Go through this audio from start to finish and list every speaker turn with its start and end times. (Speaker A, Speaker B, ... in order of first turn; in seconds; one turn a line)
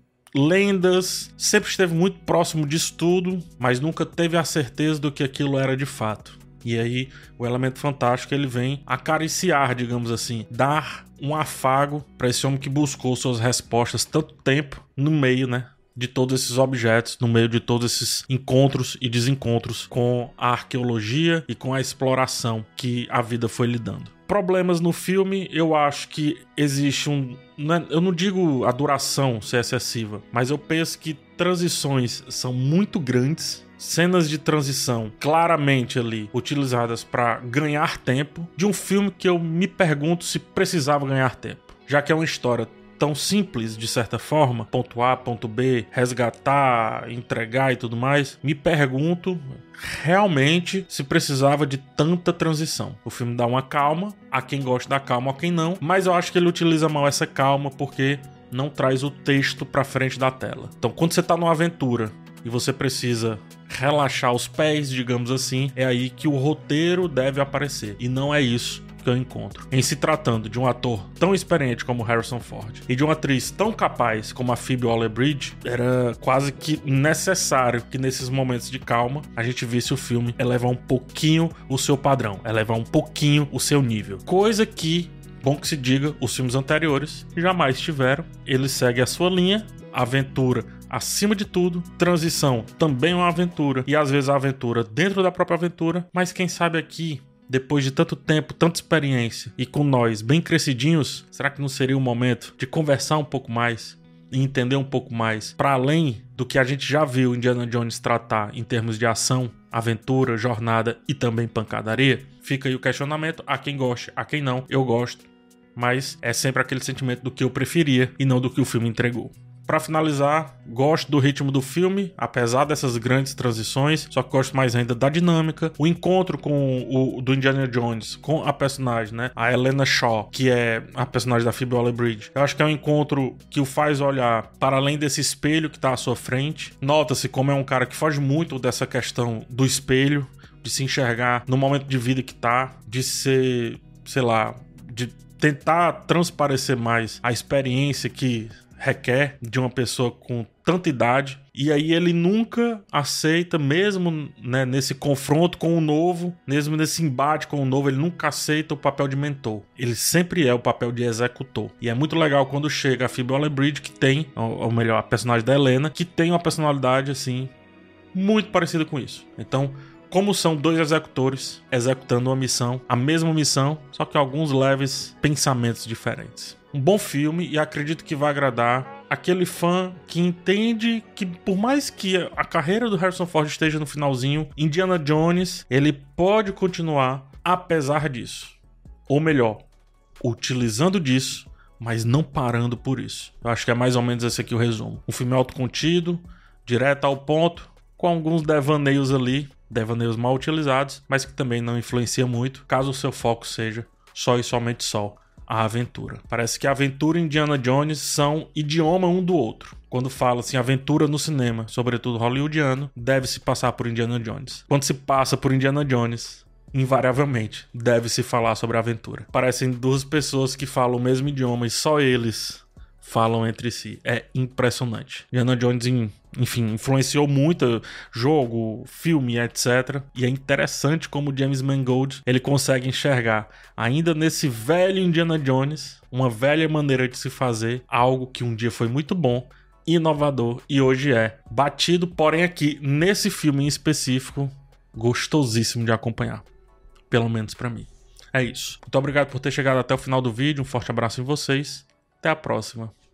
Speaker A: 0.3-167.5
Speaker A: 168.1-188.6
Speaker A: 189.1-189.6
Speaker A: 190.2-246.5
Speaker A: 247.1-252.9